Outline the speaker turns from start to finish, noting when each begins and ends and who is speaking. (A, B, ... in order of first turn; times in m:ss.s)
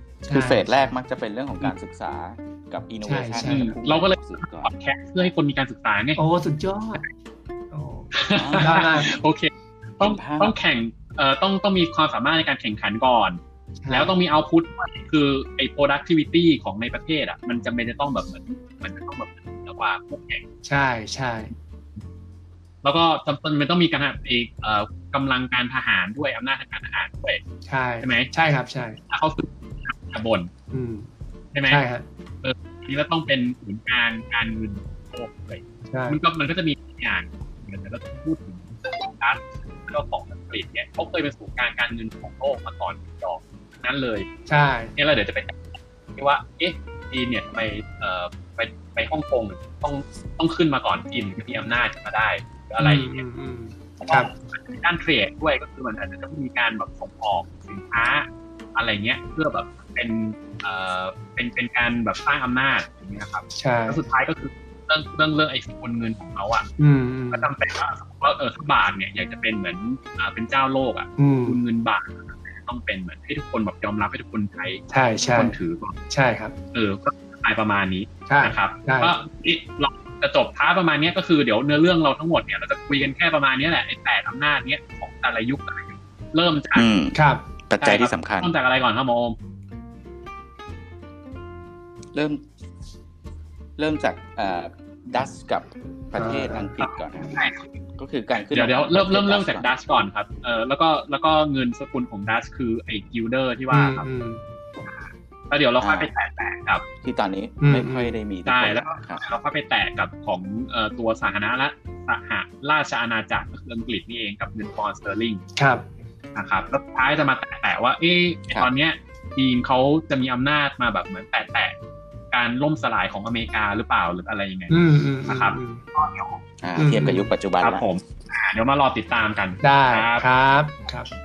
0:00.2-0:00.9 A
0:00.3-0:05.3 B
0:03.0-0:03.8 A
0:03.4-0:06.2 C
0:06.2-0:07.0 A
0:07.7-0:09.1 A
0:08.1-0:20.4 C
0:08.4-0:08.9 B
0:10.0-0:10.5 B
0:13.8-0:14.2 A
0:20.6-0:21.5 A
0:22.8-0:27.4 C
0:27.7-0:29.0 A
0:28.0-0:28.3 C
0:29.1-0:30.5 C
0:30.7-0:31.1 A
0:31.5-0:31.8 C
0:31.7-0:32.0 A
0:32.4-0:44.3 C
0:35.9-0:36.2 A
0:44.5-0:44.9 A
0:45.0-0:45.6 C
0:46.2-0:53.2 C
0:52.8-0:54.3 A
0:54.0-1:06.7 C
1:03.6-1:04.0 A
1:06.8-1:07.5 A
1:07.3-1:15.9 C
1:11.2-1:11.6 A
1:14.9-1:15.6 A
1:16.1-1:16.5 A
1:16.7-1:26.9 C
1:18.3-1:19.1 A
1:26.8-1:28.5 B
1:27.1-1:27.4 A
1:27.8-1:29.4 C
1:32.1-1:32.4 B
1:33.8-1:37.3 B
1:36.2-1:36.7 A
1:36.8-1:37.7 C
1:38.0-1:39.7 B
1:38.5-1:44.1 C
1:43.7-1:44.4 A
1:44.8-1:46.8 C
1:45.8-1:46.1 B
1:47.0-1:49.2 B
1:47.6-1:48.2 A
1:48.4-1:55.4 C
1:55.6-1:55.9 A
1:56.4-2:01.8 C
2:02.3-2:06.4 C
2:04.7-2:05.8 A
2:06.6-2:07.8 B
2:06.8-2:07.3 A
2:07.6-2:10.3 C
2:09.6-2:11.1 A